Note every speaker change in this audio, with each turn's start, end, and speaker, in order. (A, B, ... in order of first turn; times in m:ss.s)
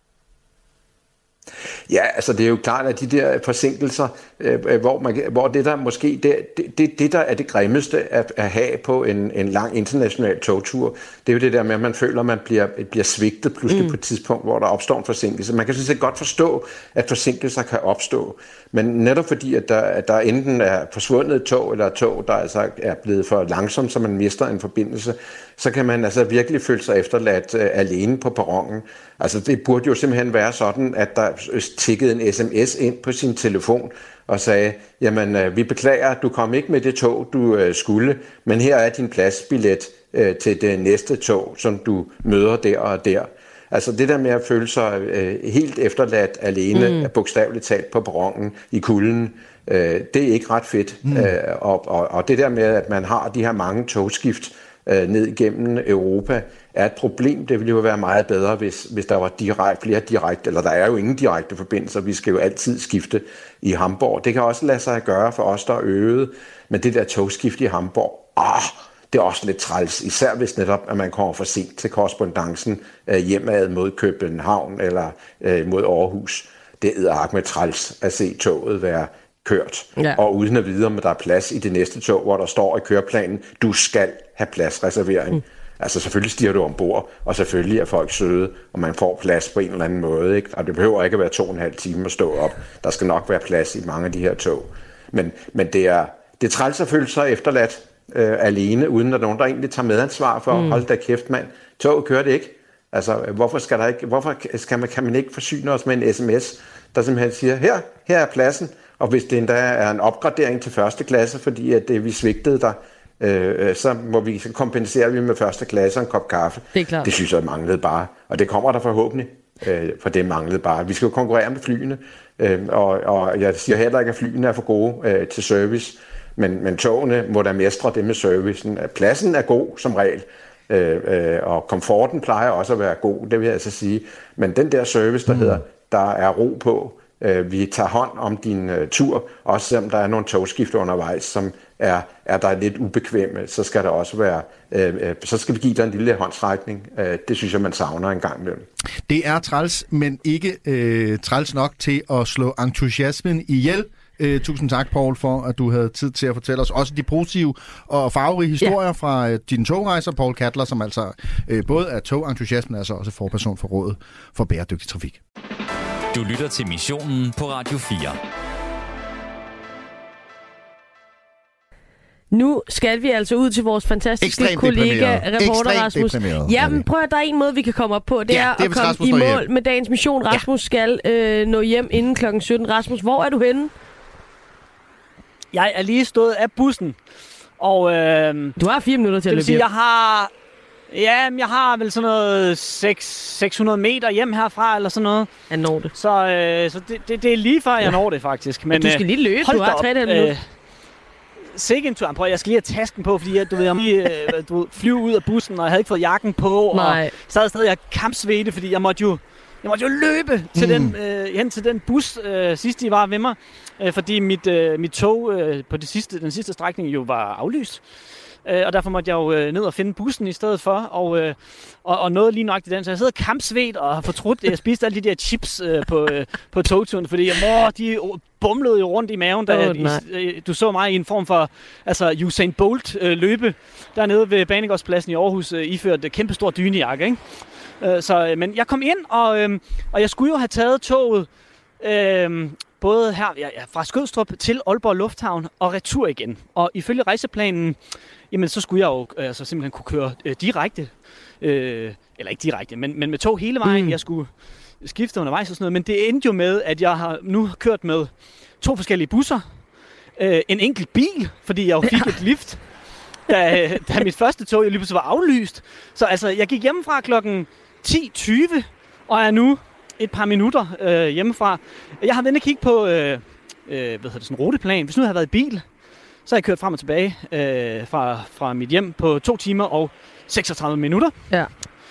0:01.9-2:28.7 A
0:13.7-0:14.0 B
0:46.7-0:47.1 B
0:51.0-0:51.3 C
1:40.5-1:40.8 B
1:56.7-1:57.1 B
2:15.3-2:15.6 C
2:29.1-2:45.2 C
2:46.1-2:48.2 D
2:52.3-3:03.7 B
2:54.2-2:56.8 C
2:58.3-2:59.4 C
3:05.5-3:07.0 E
3:07.6-3:08.5 E
3:08.6-3:09.6 B
3:09.3-3:10.3 E
3:10.9-3:15.3 E
3:15.5-3:15.9 B
3:15.9-3:20.5 E
3:18.7-3:20.3 B
3:21.5-3:37.8 E
3:26.7-3:27.1 B
3:30.6-3:31.0 C
3:38.4-4:01.3 E
3:49.5-3:50.0 B
4:01.8-4:19.5 E
4:13.6-4:14.0 B
4:20.2-4:22.7 E
4:23.2-4:35.6 E
4:36.2-4:41.2 E
4:41.3-4:41.6 B